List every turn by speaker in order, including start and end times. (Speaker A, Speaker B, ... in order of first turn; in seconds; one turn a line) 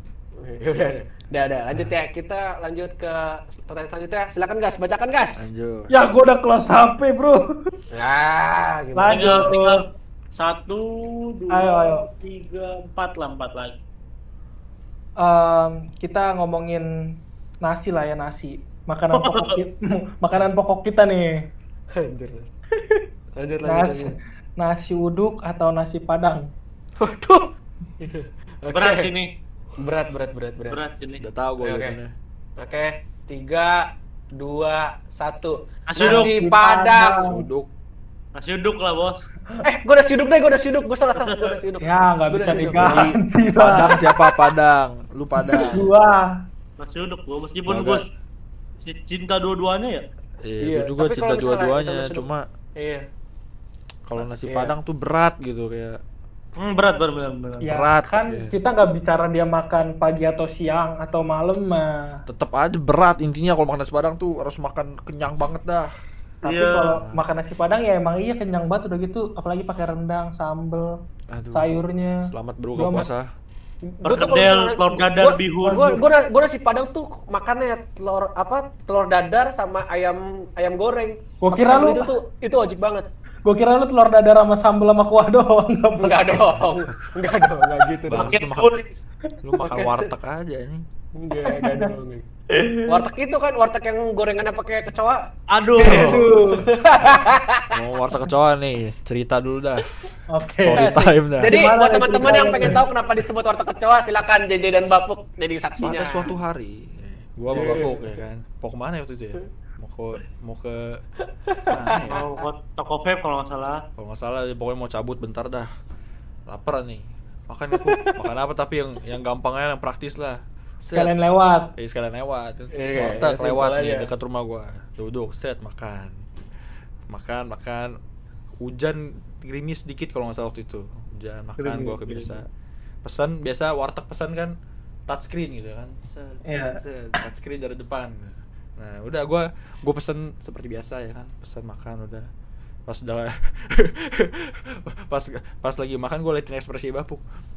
Speaker A: 0.4-5.5
Speaker B: 5.3-5.9
Speaker C: 5.9-7.7
Speaker A: 7.9-9.5
Speaker C: 8.9-9.8
Speaker D: 9.1-9.8
Speaker D: 10.3-13.8
Speaker C: 11.5-12.1
Speaker C: 15.2-21.5
Speaker D: 19.1-19.6
Speaker A: 21.9-22.5
Speaker A: 23.4-24.2
Speaker C: 23.6-26.5
Speaker A: 27.0-29.1
Speaker D: 28.7-29.3
Speaker A: 29.8-30.8
Speaker D: 30.7-31.2
Speaker B: 31.2-32.1
Speaker A: 31.6-32.0
Speaker A: 32.6-37.3
Speaker D: 35.9-36.3
Speaker C: 36.0-37.4
Speaker B: 37.2-37.7
Speaker D: 38.3-39.3
Speaker A: 39.6-43.1
Speaker D: 41.1-41.6
Speaker C: 41.8-44.1
Speaker B: 42.7-45.9
Speaker C: 45.4-46.4
Speaker D: 46.8-48.1
Speaker B: 47.7-48.0
Speaker D: 48.8-50.0
Speaker B: 50.4-52.5
Speaker A: 50.6-53.0
Speaker B: 54.1-56.0
Speaker A: 54.4-54.7
Speaker D: 56.6-57.6
Speaker B: 57.6-58.5
Speaker C: 57.6-62.2
Speaker B: 62.3-65.9
Speaker C: 66.4-71.0
Speaker D: 66.4-67.0
Speaker B: 66.9-67.2
Speaker B: 71.3-73.3
Speaker C: 71.5-73.1
Speaker A: 73.8-83.0
Speaker D: 74.0-76.0
Speaker C: 75.6-76.0
Speaker C: 81.4-82.1
Speaker C: 83.4-86.5
Speaker A: 86.0-88.4
Speaker B: 88.0-88.8
Speaker D: 88.2-88.9
Speaker B: 89.4-90.8
Speaker A: 89.6-90.1
Speaker A: 91.2-92.3
Speaker C: 91.5-91.9
Speaker C: 92.5-93.0
Speaker A: 92.8-95.3
Speaker D: 95.5-96.2
Speaker C: 95.8-96.7
Speaker B: 95.8-96.3
Speaker A: 95.8-97.7
Speaker B: 97.7-99.9
Speaker C: 100.3-102.8
Speaker B: 100.5-101.6
Speaker A: 100.7-106.3
Speaker B: 102.3-102.8
Speaker B: 105.8-111.0
Speaker A: 107.5-108.0
Speaker A: 111.5-112.4
Speaker B: 111.7-112.2
Speaker D: 112.1-113.8
Speaker B: 114.0-115.7
Speaker B: 116.5-121.1
Speaker A: 117.8-118.2
Speaker C: 120.9-121.7
Speaker B: 121.8-126.2
Speaker A: 122.7-124.1
Speaker B: 127.1-127.9
Speaker B: 128.6-132.4
Speaker C: 131.6-132.0
Speaker B: 133.0-134.5
Speaker B: 135.1-142.3
Speaker C: 136.5-136.8
Speaker B: 142.8-147.2